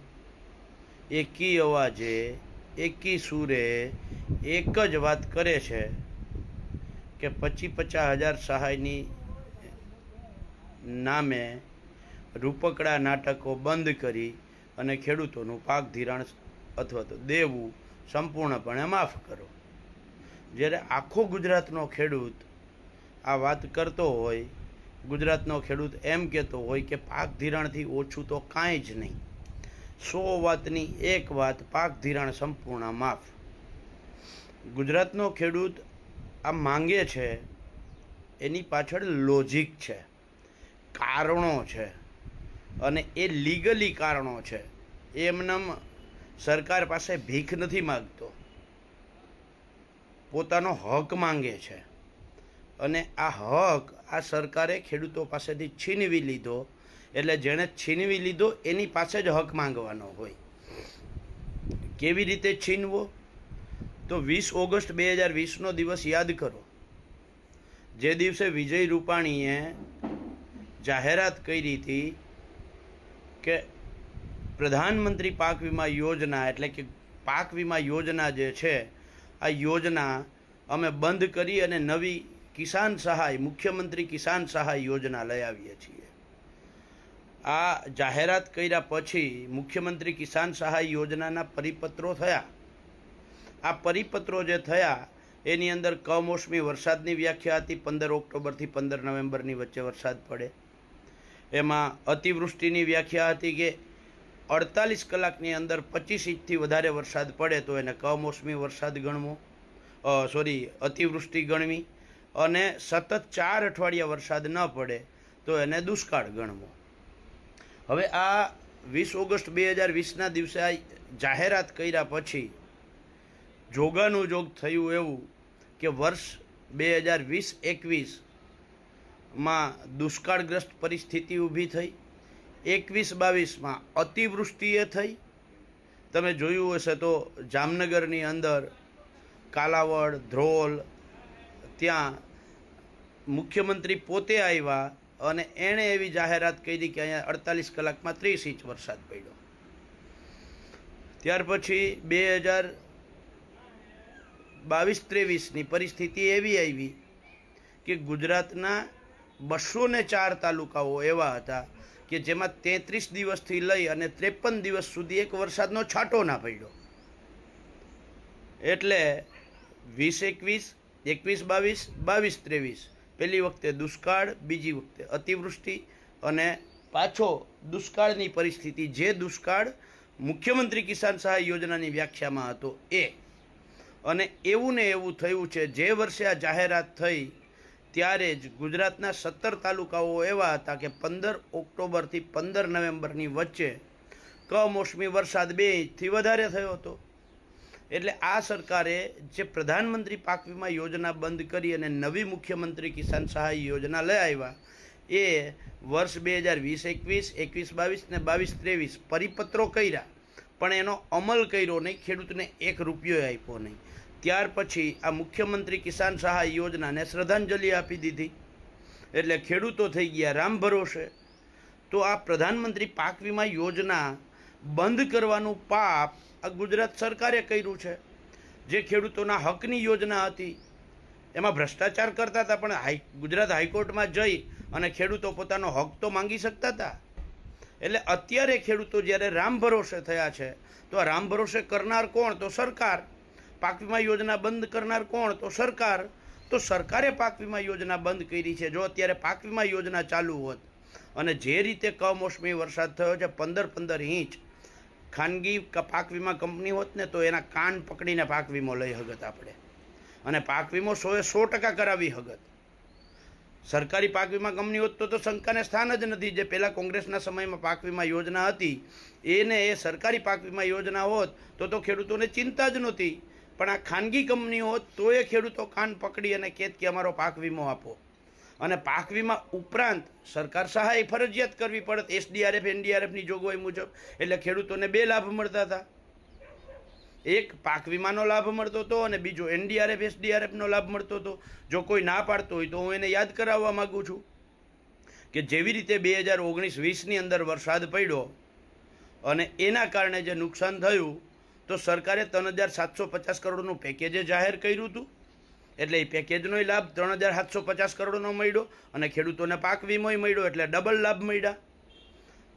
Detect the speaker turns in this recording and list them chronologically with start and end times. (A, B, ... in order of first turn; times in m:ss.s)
0:01.1-0:06.0 A
0:07.2-0:09.1 A
0:10.8-0:11.6 A
0:12.4-0:19.5 A
0:20.5-0:22.5 A
0:23.2-0:24.5 A
0:25.1-0:29.2 A
0:30.0-0:33.3 A
0:34.7-0:35.8 A
0:36.4-0:37.5 A
0:38.4-0:40.1 A
0:40.9-0:42.0 A
0:42.8-0:45.8 A
0:46.4-0:48.4 A
0:50.3-0:51.8 A
0:52.8-1:00.4 A
1:02.0-1:03.1 A
1:04.1-1:06.7 A
1:08.0-1:09.8 A
1:10.8-1:12.2 A
1:14.6-1:26.1 A
1:27.5-1:32.5 A
1:33.6-1:40.5 A
1:41.5-1:43.8 A
1:44.5-1:49.4 A
1:50.0-1:56.8 A
1:57.9-2:02.5 A
2:03.7-2:08.2 A
2:09.4-2:12.0 A
2:12.7-2:15.2 A
2:16.1-2:18.7 A
2:19.5-2:20.8 A
2:21.8-2:22.2 A
2:23.3-2:29.4 A
2:31.2-2:32.7 A
2:34.6-2:37.0 A
2:37.8-2:38.8 A
2:39.4-2:46.7 A
2:48.6-2:49.3 A
2:49.9-3:03.2 A
3:04.0-3:07.4 A
3:07.9-3:13.8 A
3:14.5-3:17.0 A
3:17.9-3:24.6 A
3:25.1-3:30.1 A
3:30.6-3:38.3 A
3:39.1-3:41.1 A
3:41.9-3:48.0 A
3:48.7-3:50.6 A
3:51.3-3:56.9 A
3:57.8-4:03.1 A
4:03.6-4:14.4 A
4:15.1-4:19.6 A
4:20.2-4:22.4 A
4:23.6-4:38.0 A
4:38.6-4:45.8 A
4:47.3-4:54.2 A
4:55.3-4:58.4 A
4:59.2-5:05.1 A
5:05.8-5:11.6 A